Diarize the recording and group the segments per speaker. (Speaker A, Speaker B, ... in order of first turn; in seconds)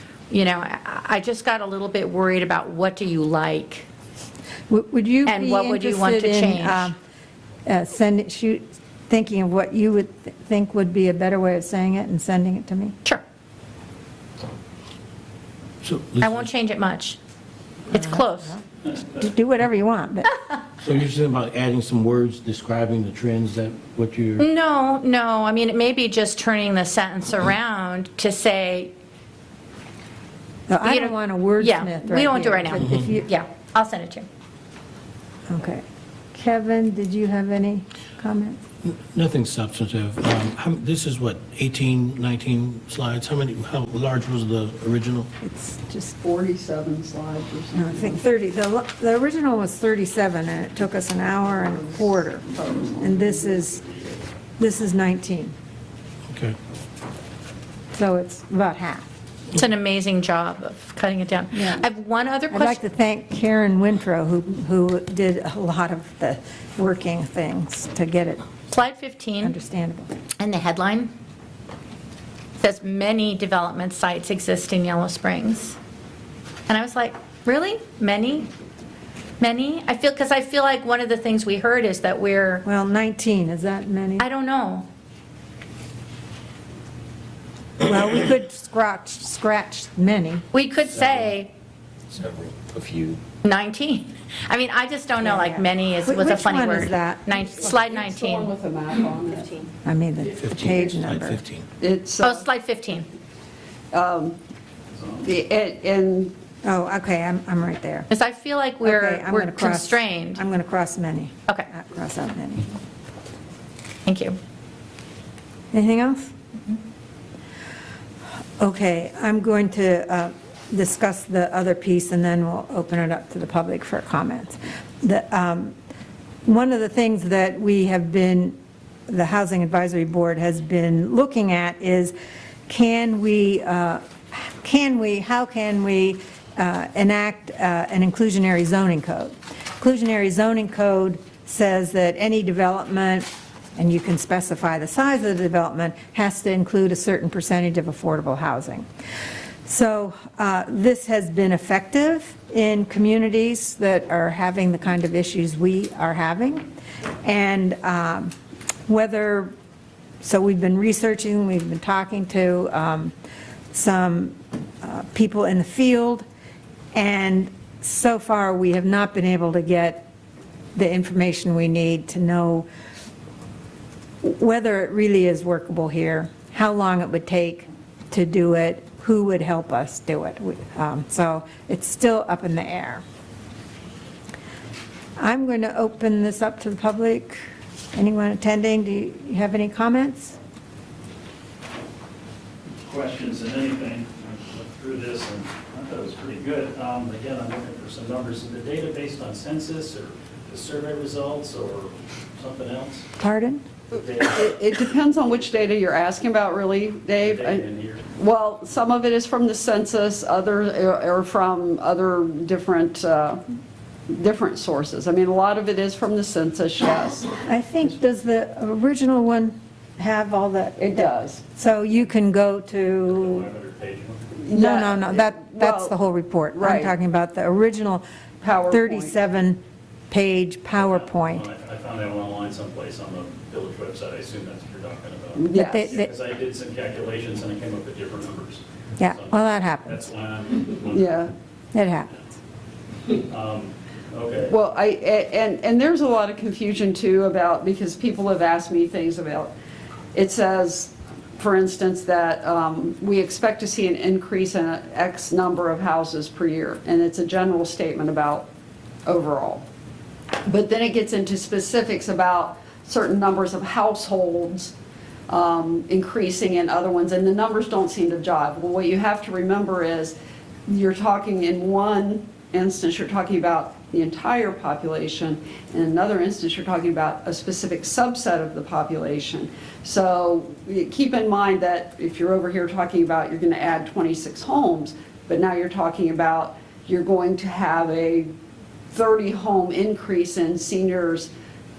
Speaker A: 0.3-3.9, 5.2-6.9, 16.2-17.2, 17.9-18.6, 24.4-28.9, 30.8-34.2, 59.5-62.8, 68.7-69.5, 70.4-71.1, 72.6-75.8, 76.7-78.5, 79.4-82.6, 84.2-84.8, 90.5-91.5, 93.4-98.5, 102.2-103.1, 108.1-110.4, 114.0-114.4
Speaker B: 4.7-7.0, 7.7-12.9, 17.9-20.3, 30.7-33.2, 35.5-38.6, 45.4-46.1, 47.7-52.5, 53.0-53.8, 54.6-55.5, 57.9-59.0, 61.5-61.8, 62.5-68.4, 69.4-70.1, 82.6-84.2, 87.8-90.4, 95.2-97.8, 99.8-101.4, 106.6-108.1, 108.8-112.7, 115.7-116.3, 118.6-125.7, 126.4-128.6, 129.1-132.1, 132.7-148.8, 149.6-156.7, 157.2-158.3, 158.9-159.5, 160.2-163.1, 163.7-166.2, 166.9-170.1, 170.7-172.7, 174.2-183.0, 185.2-187.4, 187.9-190.4, 203.2-203.6, 217.4-223.5, 224.5-228.0, 228.7-231.4, 235.5-236.1, 239.0-240.0, 241.7-242.1
Speaker C: 15.8-16.5, 20.8-24.4, 38.8-45.3, 56.3-56.6, 90.9-91.3, 92.1-93.2, 100.3-101.7
Speaker D: 46.2-48.2, 51.5-53.9, 97.7-99.7, 101.8-102.4, 103.9-104.4, 105.2-106.3, 204.3-207.6, 208.2-213.4, 214.1-217.3, 220.8-221.4, 224.4-225.9, 226.5-226.9, 228.4-229.1, 235.3-236.0, 240.9-241.3, 244.5-249.5, 250.1-258.5, 259.1-259.6, 260.4-264.7, 265.3-270.1, 270.7-288.3, 288.9-291.3
Speaker E: 104.9-105.3, 192.8-203.1, 203.9-205.7, 207.2-208.0, 223.1-224.4, 230.7-241.3, 243.2-244.6